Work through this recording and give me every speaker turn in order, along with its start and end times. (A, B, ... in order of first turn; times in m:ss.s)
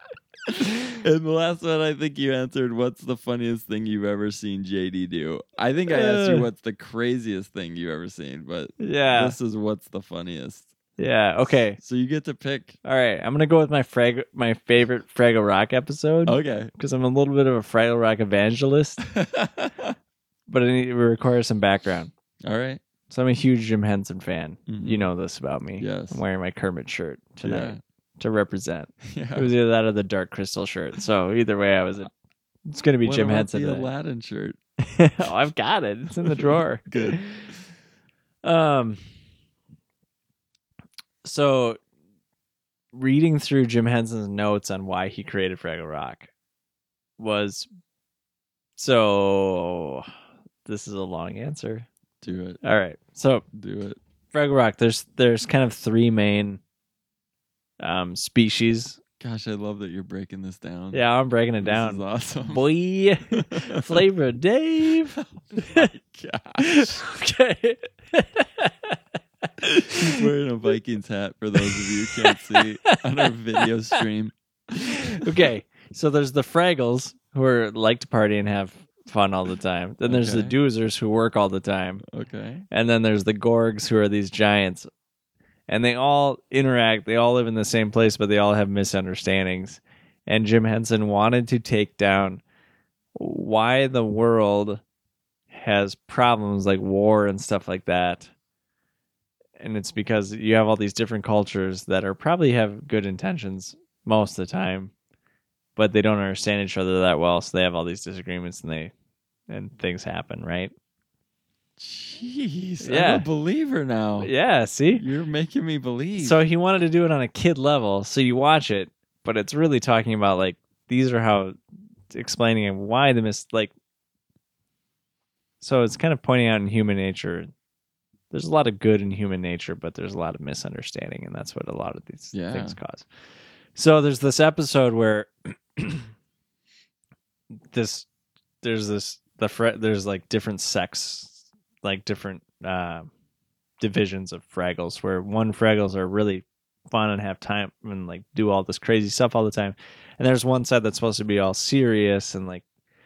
0:00.5-0:10.7 A
0:05.9-0:06.5 B
0:08.8-0:09.4 B
0:11.0-0:11.8 B
0:11.8-0:12.8 A
0:12.8-0:19.0 B
0:16.2-0:16.7 A
0:19.0-0:20.0 A
0:20.5-0:22.1 B
0:22.4-0:22.8 A
0:23.1-0:32.1 B
0:24.7-0:25.1 A
0:25.8-0:26.2 A
0:27.4-0:27.8 A
0:29.0-0:29.5 A
0:32.7-0:33.9 B
0:33.0-0:34.6 A
0:34.8-0:37.4 B
0:36.2-0:37.5 A
0:38.4-0:39.0 B
0:41.2-0:41.8 B
0:42.9-0:46.3 B
0:47.2-0:47.7 B
0:48.8-0:50.1 B
0:50.6-0:51.9 B
0:52.2-0:52.6 A
0:52.6-0:53.4 B
0:53.5-0:54.0 A
0:54.3-0:56.6 B
0:57.8-0:59.0 B
0:59.2-1:01.0 A
1:00.9-1:05.9 B
1:01.6-1:02.6 A
1:03.3-1:04.0 A
1:05.4-1:07.0 A
1:06.6-1:09.0 B
1:09.6-1:10.2 B
1:09.9-1:15.5 A
1:11.6-1:14.0 B
1:14.8-1:22.0 B
1:20.0-1:20.5 A
1:22.0-1:22.6 A
1:22.7-1:24.9 B
1:25.7-1:32.4 B
1:33.1-1:34.8 B
1:35.5-1:38.3 B
1:39.6-1:44.9 B
1:45.8-1:48.9 B
1:49.5-1:50.7 B
1:51.8-1:54.3 A
1:52.8-1:53.2 B
1:54.2-1:55.0 B
1:54.9-1:56.4 A
1:56.2-2:01.6 B
2:02.1-2:03.7 B
2:05.6-2:07.5 B
2:08.3-2:13.1 B
2:12.3-2:12.8 A
2:13.7-2:16.1 B
2:17.7-2:18.1 B
2:18.6-2:23.1 B
2:23.8-2:32.6 B